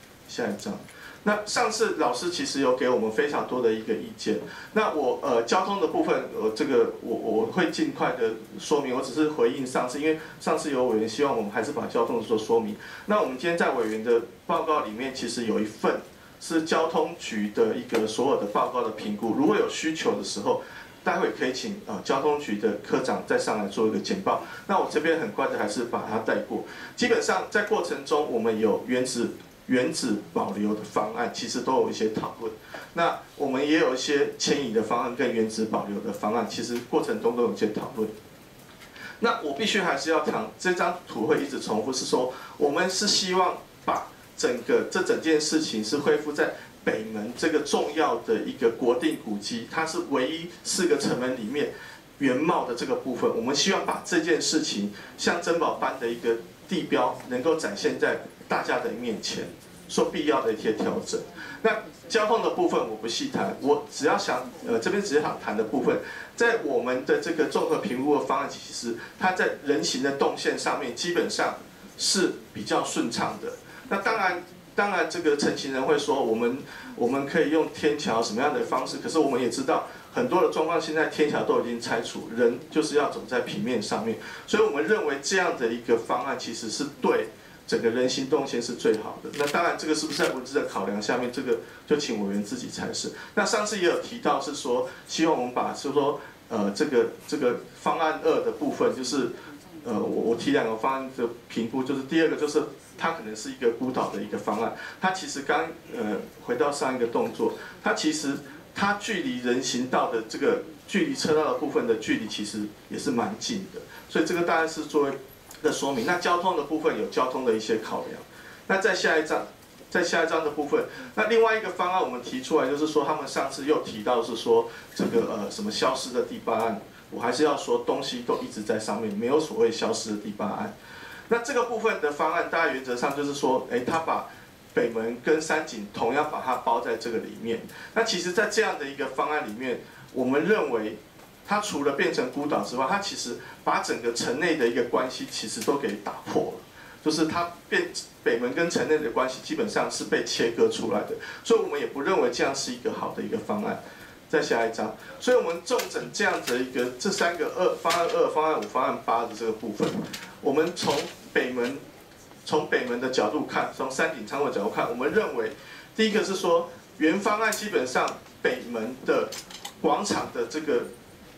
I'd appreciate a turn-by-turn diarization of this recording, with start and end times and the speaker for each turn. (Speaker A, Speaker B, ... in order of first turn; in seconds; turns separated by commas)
Speaker A: 0.3-38.1, Speaker A: 39.2-130.7, Speaker A: 131.3-161.8, Speaker A: 162.4-170.9